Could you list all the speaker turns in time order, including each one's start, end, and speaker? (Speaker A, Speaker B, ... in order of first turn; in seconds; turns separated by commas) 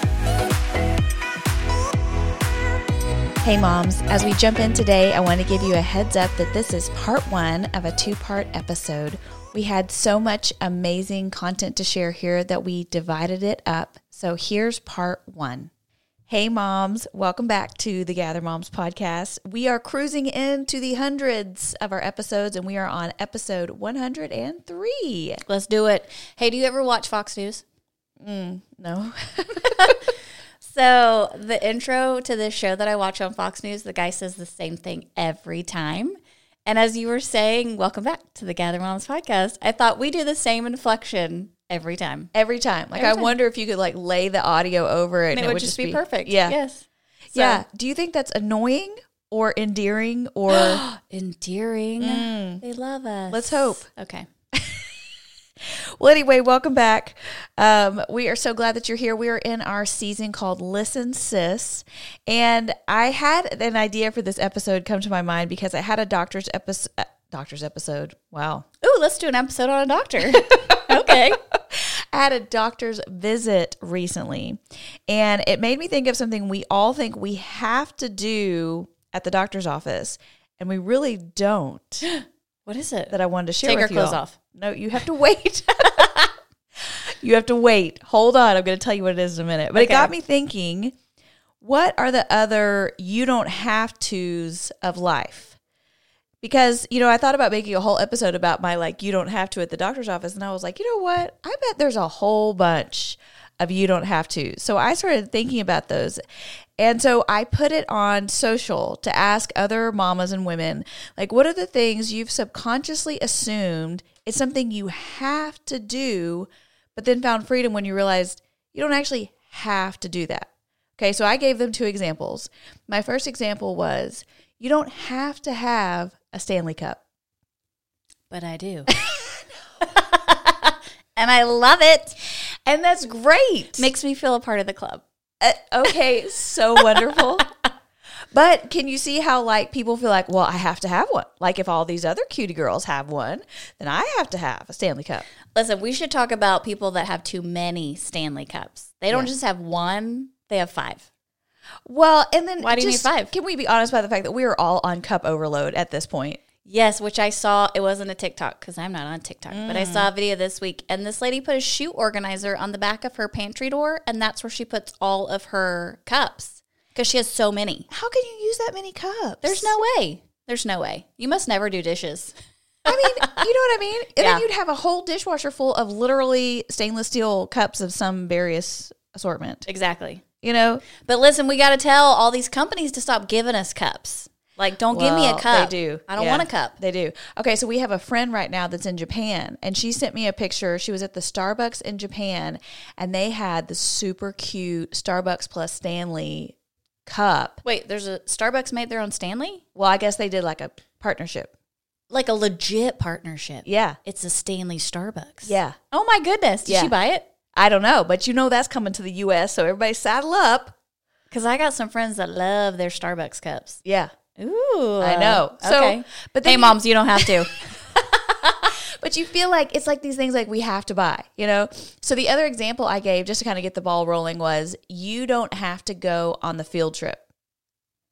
Speaker A: 3.4-15.7, Speaker A: 16.3-25.4, Speaker B: 25.5-27.6, Speaker A: 28.2-30.0, Speaker B: 29.6-30.0, Speaker B: 30.6-42.3, Speaker A: 42.3-46.6, Speaker B: 43.0-43.4, Speaker B: 45.3-47.6, Speaker A: 47.3-50.8, Speaker B: 50.5-54.3, Speaker A: 52.0-52.6, Speaker A: 53.3-53.9, Speaker A: 54.5-54.8, Speaker A: 56.0-68.7, Speaker B: 68.8-71.4, Speaker A: 70.5-71.2, Speaker A: 71.7-82.1, Speaker B: 82.0-84.3, Speaker A: 83.1-86.2, Speaker A: 86.8-90.9, Speaker B: 89.7-90.1, Speaker A: 91.6-95.6, Speaker A: 96.4-106.2, Speaker A: 106.8-127.0, Speaker B: 128.3-128.9, Speaker B: 129.9-132.2, Speaker A: 132.7-133.9, Speaker B: 133.8-135.0, Speaker A: 135.4-137.5, Speaker B: 137.0-137.2, Speaker A: 138.3-145.3, Speaker B: 145.5-151.1, Speaker A: 151.9-156.4, Speaker B: 152.6-153.3, Speaker B: 156.7-167.9, Speaker A: 159.5-160.1, Speaker A: 167.9-169.8, Speaker B: 169.4-172.3, Speaker A: 172.8-179.7, Speaker B: 172.9-173.4, Speaker B: 174.2-174.4, Speaker B: 179.7-180.2, Speaker A: 180.4-180.8, Speaker B: 181.0-186.8, Speaker A: 184.9-196.5, Speaker A: 197.1-197.6, Speaker B: 197.6-199.6, Speaker A: 199.8-201.5, Speaker B: 202.1-207.3, Speaker A: 203.7-204.0, Speaker A: 205.5-205.8, Speaker A: 206.7-206.9, Speaker A: 207.5-210.8, Speaker B: 211.3-213.8, Speaker A: 213.8-214.1, Speaker B: 214.4-217.6, Speaker A: 215.0-217.3, Speaker A: 218.5-227.2